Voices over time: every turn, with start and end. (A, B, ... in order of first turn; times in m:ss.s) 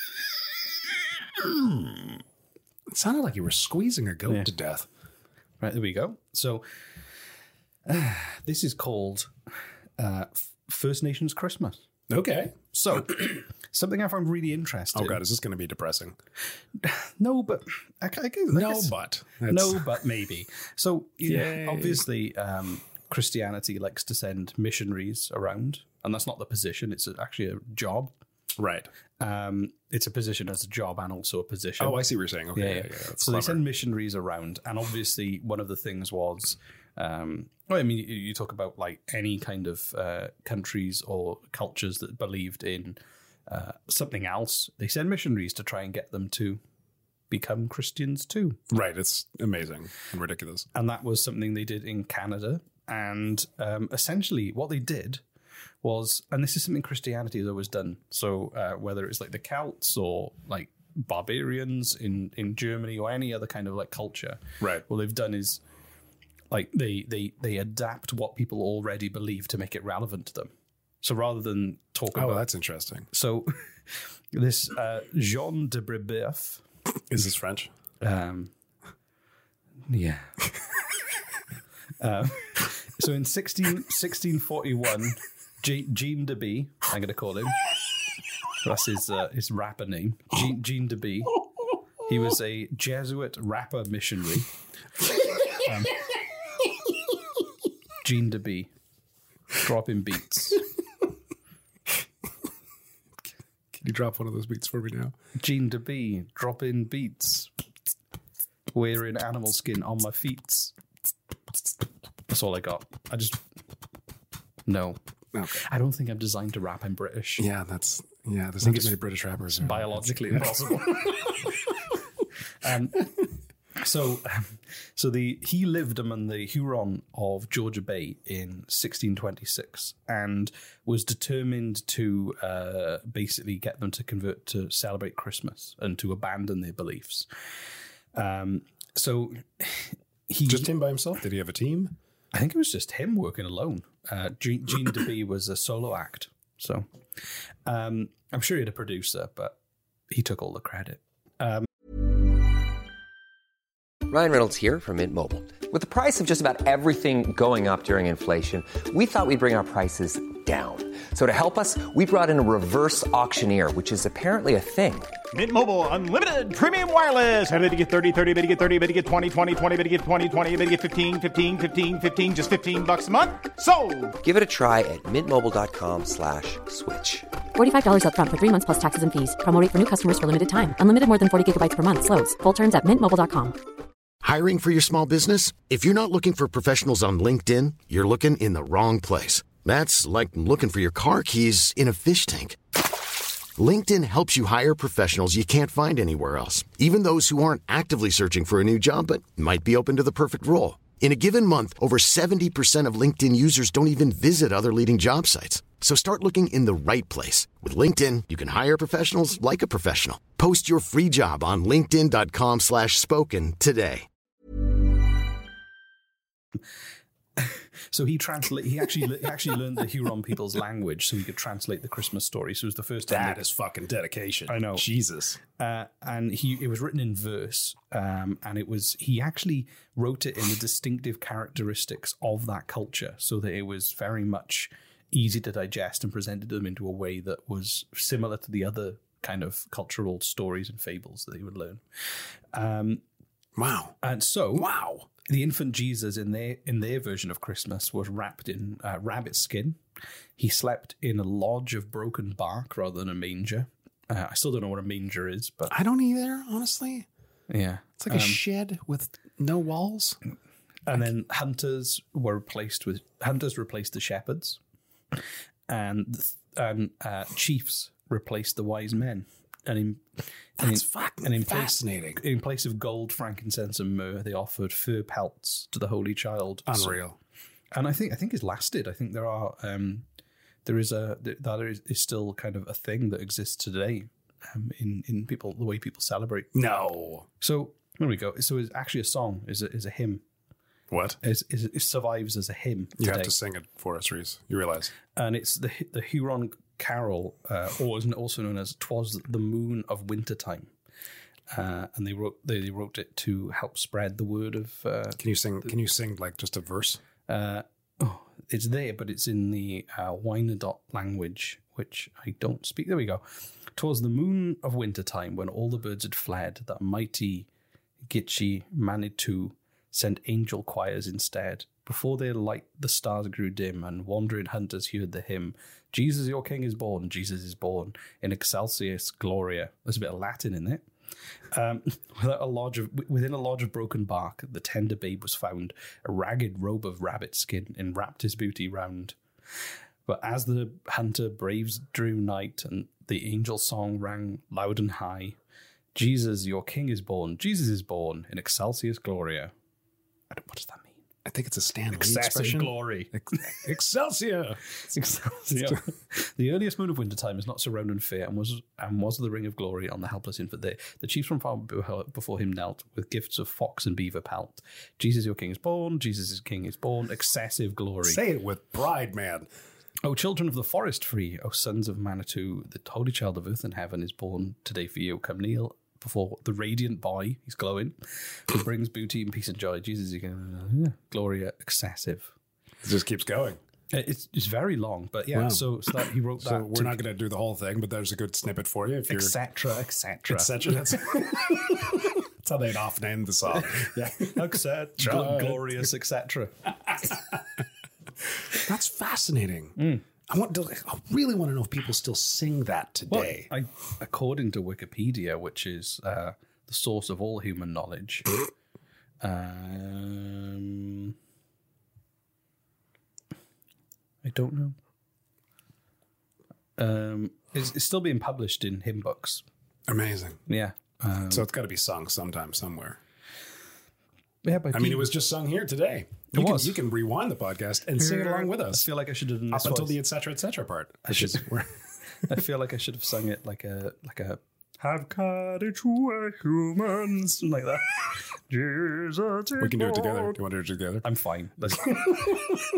0:02.9-0:04.9 A
0:05.6-0:06.7 B
0:07.9-0:09.3 B
0:10.0-0:11.8 B
0:12.1-0:12.6 A
0:12.7-0:15.2 B
0:14.9-0:16.1 A
0:16.8-0:18.9 B
0:18.5-0:19.9 A
0:19.5-0:28.1 B
0:21.2-0:22.0 A
0:28.6-0:28.9 A
0:29.2-0:32.0 B
0:31.8-0:33.6 A
0:32.6-0:46.6 B
0:47.3-0:48.6 B
0:48.7-0:50.7 A
0:50.7-0:55.2 B
0:55.8-1:05.6 B
1:06.5-1:10.5 B
1:11.0-1:12.5 B
1:12.1-1:13.1 A
1:13.1-1:13.5 B
1:14.3-1:16.6 B
1:17.1-1:17.7 A
1:18.0-1:18.5 B
1:19.9-1:20.3 B
1:22.0-1:27.6 B
1:28.6-1:31.4 B
1:32.0-1:34.5 B
1:35.6-1:36.0 B
1:38.0-1:38.7 B
1:39.6-1:40.6 B
1:43.8-1:45.1 A
1:45.4-1:47.5 B
1:48.7-1:50.8 B
1:52.3-1:53.4 B
1:54.6-1:55.0 B
1:55.3-1:55.6 A
1:55.5-1:57.5 B
1:57.4-2:00.5 A
1:58.6-1:58.9 B
1:59.6-2:01.4 B
2:02.6-2:03.1 B
2:03.8-2:17.3 B
2:18.1-2:20.7 B
2:20.5-2:22.0 A
2:22.3-2:26.9 B
2:27.6-2:29.6 B
2:30.1-2:31.7 B
2:34.1-2:45.1 C
2:45.3-2:54.1 D
2:54.2-2:57.3 C
2:57.6-3:03.6 E
3:04.2-3:12.6 F
3:13.6-3:34.1 F
3:37.4-3:43.5 B
3:43.1-3:45.4 A
3:44.5-3:44.8 B
3:45.6-4:01.8 B
4:02.5-4:03.0 B
4:03.6-4:04.0 A
4:04.0-4:04.7 B
4:04.5-4:05.1 A
4:05.3-4:09.8 B
4:10.4-4:15.7 B
4:15.7-4:17.1 A
4:17.5-4:18.4 B
4:18.0-4:20.2 A
4:20.9-4:24.6 B
4:25.7-4:30.0 B
4:30.6-4:32.2 A
4:30.6-4:37.0 B
4:36.7-4:37.2 A
4:37.7-4:40.1 B
4:40.6-4:46.5 B
4:46.5-4:47.3 A
4:47.4-4:50.2 B
4:50.9-4:51.2 A
4:51.2-4:53.3 B
4:53.0-4:54.9 A
4:55.2-5:00.7 B
5:01.5-5:05.2 B
5:05.2-5:07.0 A
5:07.3-5:13.2 B
5:13.8-5:17.5 B
5:18.0-5:30.8 B
5:31.5-5:39.2 B
5:40.1-5:45.4 B
5:45.9-5:49.5 B
5:50.3-5:51.0 B
5:51.2-5:54.6 A
5:51.9-5:53.1 B
5:54.9-6:08.2 B
6:08.0-6:09.5 A
6:10.0-6:22.3 B
6:22.8-6:23.6 A
6:23.9-6:27.0 B
6:25.3-6:25.6 A
6:26.4-6:29.4 A
6:29.1-6:31.0 B
6:30.3-6:35.6 A
6:34.3-6:36.7 B
6:38.5-6:39.8 A
6:39.8-6:40.0 B
6:40.3-6:43.5 A
6:43.1-6:48.3 B
6:49.2-6:51.1 B
6:54.2-6:54.8 B
6:56.8-6:59.4 B
6:59.9-7:00.4 A
7:00.5-7:01.5 B
7:01.3-7:03.0 A
7:04.4-7:05.1 B
7:04.7-7:08.8 A
7:06.3-7:06.8 B
7:08.0-7:10.0 B
7:09.5-7:11.7 A
7:11.1-7:11.5 B
7:12.2-7:20.4 B
7:19.6-7:21.1 A
7:21.0-7:22.6 B
7:21.9-7:22.4 A